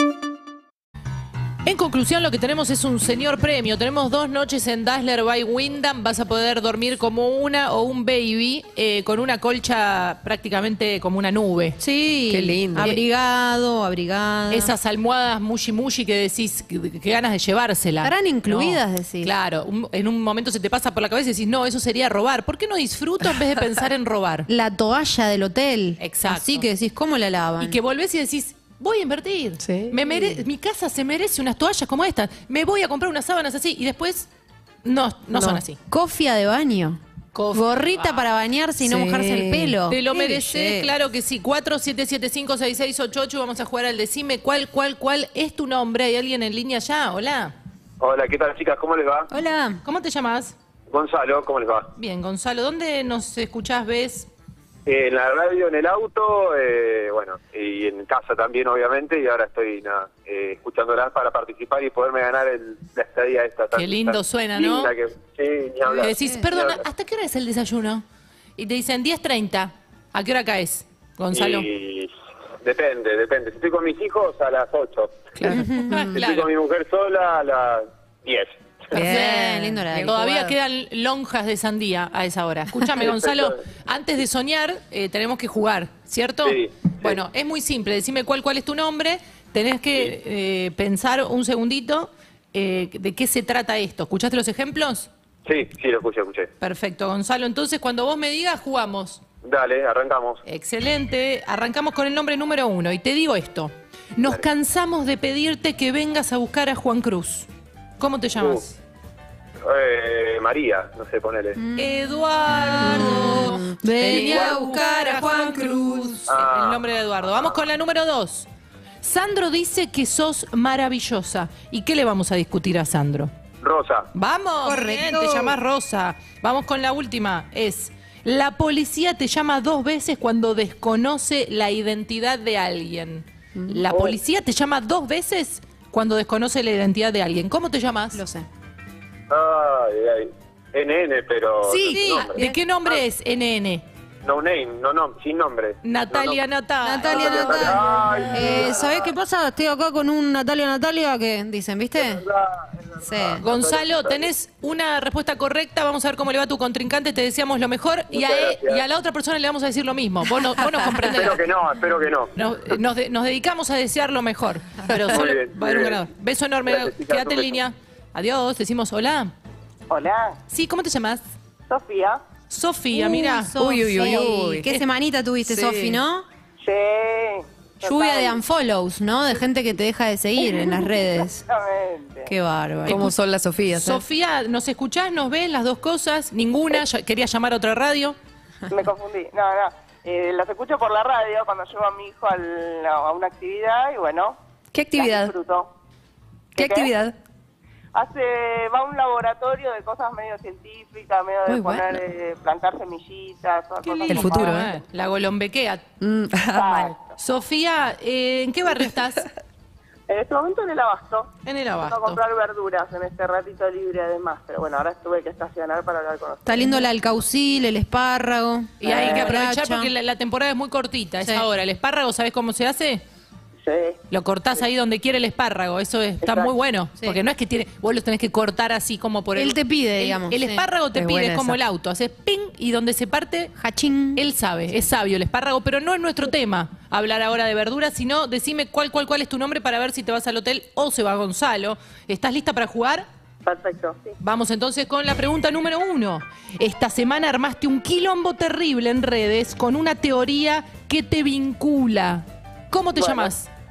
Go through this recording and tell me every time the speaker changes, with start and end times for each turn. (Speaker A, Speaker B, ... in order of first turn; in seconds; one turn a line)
Speaker A: 1.6-11.8
Speaker B: 11.8-14.7
Speaker C: 12.3-12.9
Speaker A: 12.8-13.0
Speaker A: 14.5-24.5
Speaker B: 18.0-19.3
Speaker B: 24.5-27.8
Speaker A: 26.0-26.7
Speaker A: 27.6-34.3
Speaker C: 29.6-30.1
Speaker A: 34.8-35.8
Speaker C: 35.3-35.6
Speaker B: 35.9-37.0
Speaker A: 37.3-38.3
Speaker B: 37.5-40.9
Speaker C: 38.8-39.7
Speaker A: 39.9-47.5
Speaker D: 48.0-49.3
Speaker B: 49.3-49.8
Speaker A: 49.8-50.5
Speaker D: 50.9-51.9
Speaker A: 52.0-54.3
Speaker D: 54.9-66.8
Speaker A: 63.7-64.9
Speaker B: 65.8-66.4
Speaker A: 66.0-68.0
Speaker A: 68.6-71.7
Speaker D: 71.3-72.1
Speaker D: 72.6-79.0
Speaker A: 75.3-76.5
Speaker B: 75.5-76.2
Speaker B: 78.9-80.5
Speaker A: 78.9-95.1
Speaker D: 83.0-83.5
Speaker D: 86.4-87.2
Speaker D: 95.5-96.5
Speaker A: 96.6-99.2
Speaker D: 99.4-100.4
Speaker A: 100.5-107.5
Speaker A: 108.0-108.8
Speaker D: 108.4-108.6
Speaker D: 109.6-111.6
Speaker B: 111.6-112.0
Speaker A: 111.8-118.5
Speaker B: 112.8-116.2
Speaker D: 114.2-114.5
Speaker D: 116.3-116.8
Speaker A: 119.0-123.3
Speaker D: 123.6-124.1
Speaker A: 124.1-138.2
Speaker B: 124.6-125.6
Speaker D: 133.9-134.2
Speaker B: 138.1-138.5
Speaker D: 139.3-143.0
Speaker A: 141.6-143.8
Speaker B: 142.1-142.6
Speaker D: 144.2-146.4
Speaker A: 145.8-147.7
Speaker B: 146.8-152.2
Speaker D: 147.0-149.1
Speaker E: 148.1-148.5
Speaker D: 152.0-154.2
Speaker B: 153.0-153.4
Speaker A: 153.4-161.4
Speaker D: 158.1-158.8
Speaker D: 161.0-162.3
Speaker A: 162.3-169.3
Speaker D: 165.0-166.0
Speaker D: 166.7-167.6
Speaker E: 169.9-170.4
Speaker A: 170.5-171.2
Speaker E: 171.7-172.2
Speaker A: 172.5-174.8
Speaker B: 172.9-176.2
Speaker C: 173.5-174.7
Speaker C: 175.4-176.0
Speaker E: 176.6-178.4
Speaker B: 177.8-181.4
Speaker E: 180.6-182.3
Speaker B: 182.2-183.1
Speaker A: 182.8-183.1
Speaker C: 182.9-184.0
Speaker A: 183.8-188.2
Speaker E: 188.7-194.4
Speaker C: 194.7-195.3
Speaker E: 194.9-195.7
Speaker E: 196.5-196.9
Speaker C: 196.6-197.1
Speaker E: 197.9-204.8
Speaker C: 201.5-202.0
Speaker C: 204.1-204.7
Speaker A: 204.1-205.8
Speaker C: 206.0-206.9
Speaker E: 206.5-207.2
Speaker A: 207.0-209.2
Speaker E: 210.1-216.9
Speaker A: 211.4-212.2
Speaker B: 216.4-219.9
Speaker A: 218.8-223.0
Speaker E: 218.8-219.4
Speaker E: 223.6-224.0
Speaker A: 224.1-233.5
Speaker E: 226.2-226.5
Speaker B: 229.3-230.7
Speaker C: 230.9-231.5
Speaker B: 233.6-234.2
Speaker A: 234.2-243.1
Speaker E: 243.4-244.1
Speaker A: 244.2-253.5
Speaker E: 252.9-253.3